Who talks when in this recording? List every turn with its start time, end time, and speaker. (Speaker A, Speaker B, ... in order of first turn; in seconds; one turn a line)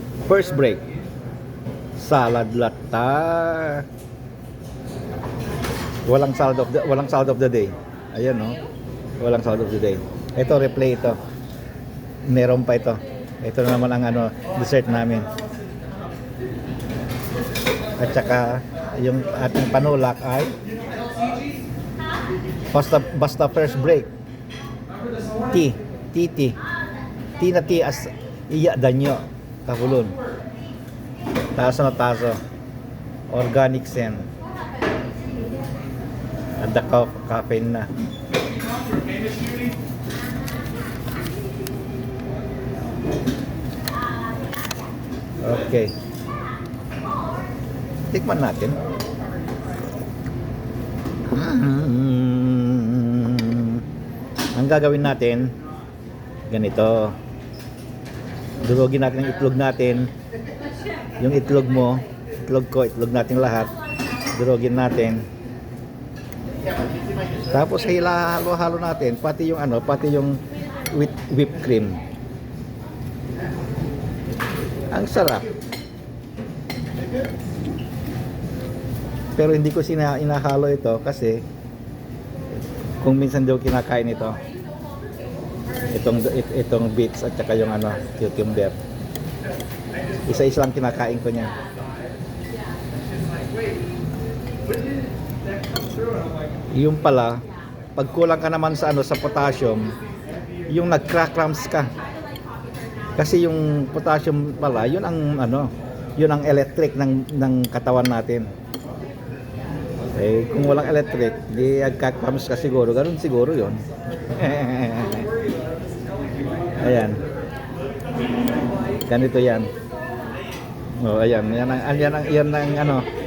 Speaker A: 0.2-0.8
Speaker A: 2.0-3.9
Speaker A: 6.0-8.6
Speaker A: 9.2-11.2
Speaker A: 12.3-15.3
Speaker A: 18.0-20.5
Speaker A: 22.7-24.1
Speaker A: 25.5-26.6
Speaker A: 27.4-30.1
Speaker A: 31.6-32.4
Speaker A: 33.3-34.3
Speaker A: 36.6-37.9
Speaker A: 45.4-45.9
Speaker A: 48.1-48.8
Speaker A: 51.3-53.8
Speaker A: 54.5-55.5
Speaker A: 56.5-57.1
Speaker A: 58.6-60.1
Speaker A: 61.2-63.7
Speaker A: 64.3-65.2
Speaker A: 67.5-72.0
Speaker A: 74.9-75.5
Speaker A: 79.3-81.4
Speaker A: 83.0-84.4
Speaker A: 85.9-88.8
Speaker A: 90.2-91.5
Speaker A: 96.7-97.4
Speaker A: 97.9-99.9
Speaker A: 100.7-101.9
Speaker A: 103.2-108.5
Speaker A: 110.1-115.3
Speaker A: 116.8-117.2
Speaker A: 119.1-119.7
Speaker A: 121.0-123.1